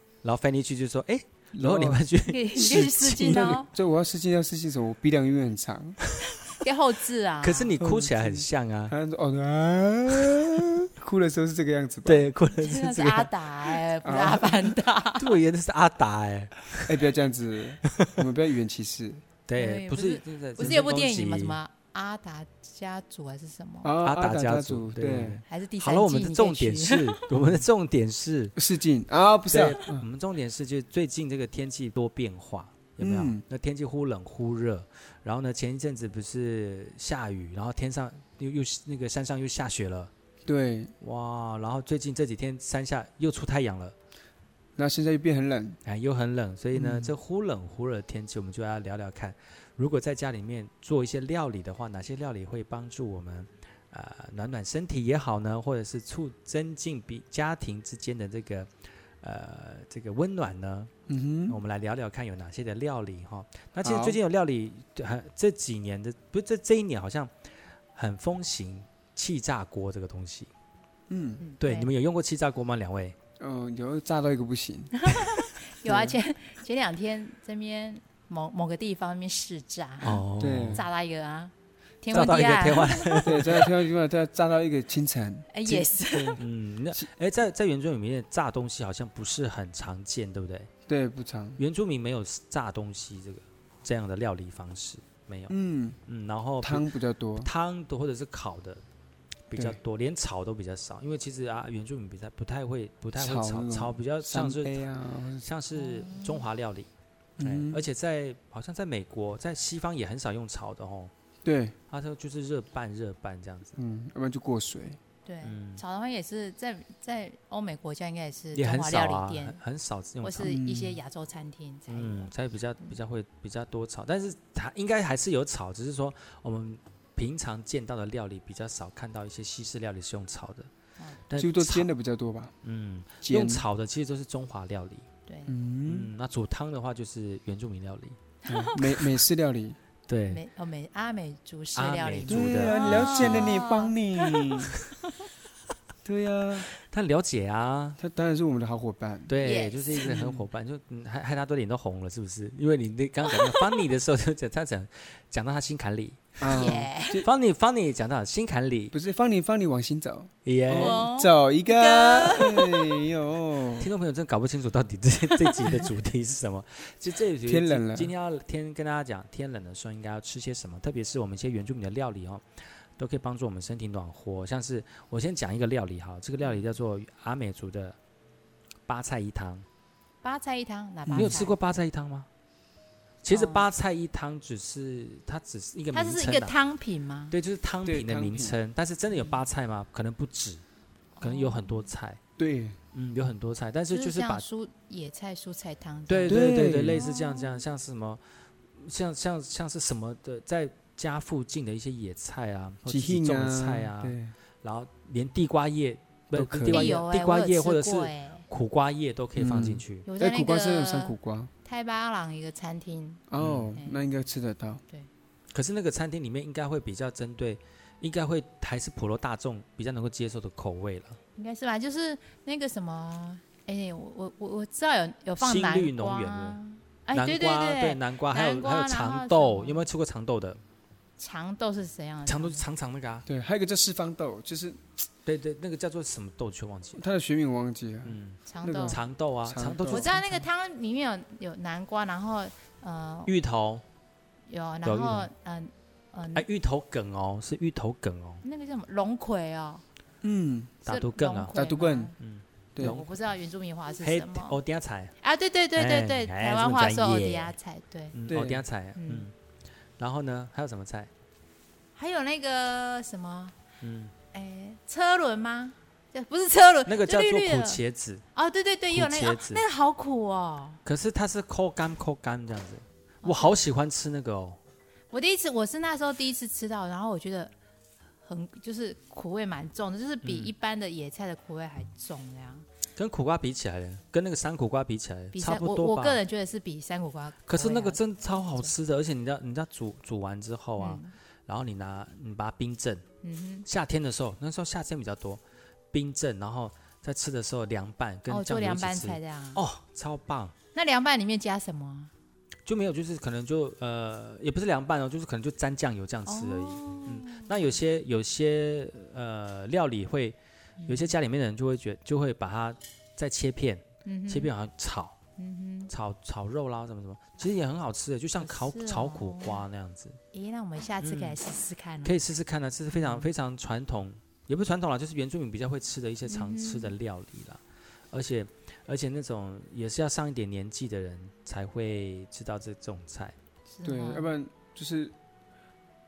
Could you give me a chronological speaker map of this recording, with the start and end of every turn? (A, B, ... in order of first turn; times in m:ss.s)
0:00.2-0:03.6 A
0:01.5-0:02.0 B
0:02.2-0:03.7 C
0:03.2-0:06.0 B
0:06.2-0:07.8 C
0:07.4-0:08.9 A
0:07.8-0:12.3 B
0:12.0-0:13.3 A
0:12.6-0:15.3 C
0:14.0-0:14.8 B
0:15.1-0:17.0 A
0:16.9-0:19.2 B
0:18.0-0:18.2 A
0:19.5-0:21.6 A
0:19.5-0:23.9 C
0:23.8-0:25.4 B
0:24.0-0:28.6 A
0:25.4-0:27.2 C
0:28.6-0:30.0 B
0:29.4-0:40.1 A
0:33.0-0:33.4 B
0:40.5-0:40.9 B
0:41.0-0:43.9 A
0:44.8-0:45.8 B
0:45.8-0:58.7 A
0:46.7-0:47.1 B
0:59.2-1:00.9 A
1:01.1-1:01.6 B
1:01.5-1:07.3 A
1:03.8-1:04.2 B
1:07.9-1:10.5 A
1:11.1-1:11.4 B
1:11.4-1:11.9 C
1:11.6-1:13.2 A
1:13.4-1:14.9 B
1:15.0-1:23.2 C
1:15.8-1:16.2 B
1:20.0-1:20.8 A
1:20.4-1:20.8 B
1:22.1-1:23.7 A
1:23.2-1:26.4 B
1:25.5-1:26.4 C
1:26.4-1:30.7 A
1:30.9-1:31.6 B
1:31.6-1:35.5 A
1:35.5-1:36.0 B
1:36.1-1:38.8 A
1:36.6-1:37.5 B
1:39.5-1:46.9 A
1:43.1-1:45.4 B
1:45.8-1:46.4 C
1:47.4-1:47.8 B
1:47.4-1:51.1 A
1:51.4-1:51.7 B
1:51.9-1:53.8 A
1:53.8-1:55.0 B
1:55.2-1:59.6 C
1:55.4-1:55.8 A
1:58.5-2:00.6 A
2:00.2-2:02.3 C
2:00.4-2:01.0 B
2:01.9-2:10.7 A
2:11.3-2:11.9 A
2:11.3-2:12.5 B
2:12.6-2:15.0 A
2:13.2-2:13.6 B
2:15.3-2:15.5 C
2:15.5-2:16.1 B
2:15.8-2:18.2 A
2:18.5-2:18.8 C
2:18.5-2:19.8 B
2:20.1-2:20.4 A
2:20.3-2:24.5 C
2:21.7-2:23.5 A
2:22.3-2:24.7 B
2:26.0-2:26.7 B
2:26.8-2:28.0 A
2:28.0-2:29.3 B
2:29.3-2:38.9 A
2:29.4-2:30.1 C
2:30.0-2:30.4 B
2:33.3-2:33.5 C
2:36.4-2:37.3 B
2:36.5-2:37.2 C
2:38.9-2:43.9 B
2:40.4-2:41.0 A
2:40.7-2:42.8 C
2:43.8-2:52.4 A
2:47.4-2:48.1 B
2:53.0-2:58.0 A
2:58.9-2:59.6 A
3:00.2-3:01.6 C
3:01.0-3:01.4 B
3:01.1-3:02.3 A
3:03.2-3:06.5 A
3:03.3-3:03.6 C
3:05.9-3:07.3 C
3:07.3-3:10.6 A
3:07.8-3:08.6 B
3:11.2-3:11.9 C
3:11.2-3:12.2 A
3:12.4-3:12.8 B
3:12.9-3:14.4 A
3:13.9-3:17.6 C
3:16.1-3:18.2 A
3:16.3-3:17.0 B
3:18.7-3:30.1 A
3:22.8-3:24.3 B
3:26.3-3:27.0 B
3:26.7-3:28.4 C
3:29.4-3:31.5 B
3:30.0-3:33.2 C
3:33.3-3:34.8 B
3:33.4-3:33.7 A
3:33.7-3:34.0 C
3:35.5-3:41.2 A
3:41.4-3:49.9 C
3:45.4-3:46.6 A
3:47.1-3:50.6 A
3:51.2-3:52.6 C
3:52.2-3:53.3 A
3:53.2-3:54.8 B
3:55.2-3:57.0 A
3:57.0-4:00.1 B
3:58.0-4:00.5 A
3:58.4-3:59.0 C
3:59.9-4:03.3 C
4:03.3-4:03.8 A
4:04.5-4:06.4 C
4:04.8-4:05.3 A
4:06.3-4:08.4 A
4:08.4-4:09.8 C
4:10.2-4:10.8 B
4:10.8-4:11.5 A
4:10.8-4:12.1 C
4:11.5-4:12.1 B
4:12.2-4:13.1 A
4:12.7-4:13.0 B
4:12.8-4:14.6 C
4:14.0-4:15.1 A
4:15.2-4:18.2 C
4:15.7-4:17.5 A
4:18.1-4:19.3 A
4:18.3-4:18.6 B
4:19.0-4:19.3 C
4:20.0-4:21.1 A
4:21.9-4:23.6 C
4:23.8-4:24.1 A
4:24.3-4:27.8 C
4:26.8-4:28.2 A
4:28.3-4:30.8 C
4:28.9-4:29.6 A
4:30.8-4:34.6 A
4:33.2-4:33.6 C
4:35.1-4:37.5 C
4:38.2-4:42.7 C
4:40.2-4:40.5 A
4:43.0-4:46.2 A
4:45.3-4:48.7 C
4:47.4-4:53.0 A
4:50.8-4:51.1 C
4:53.2-4:53.6 C
4:53.6-4:55.4 A
4:55.9-5:00.5 A
4:58.3-4:59.6 C
5:00.7-5:02.1 C
5:02.6-5:10.4 A
5:06.2-5:07.6 C
5:10.8-5:11.1 C
5:10.9-5:15.2 A
5:14.0-5:14.5 C
5:15.4-5:15.9 C
5:15.9-5:20.2 A
5:18.4-5:19.6 C
5:20.3-5:22.2 C
5:21.0-5:21.4 A
5:22.0-5:27.6 A
5:22.9-5:23.3 C
5:26.3-5:26.9 C
5:28.1-5:33.4 A
5:33.7-5:34.3 C
5:33.8-5:35.1 B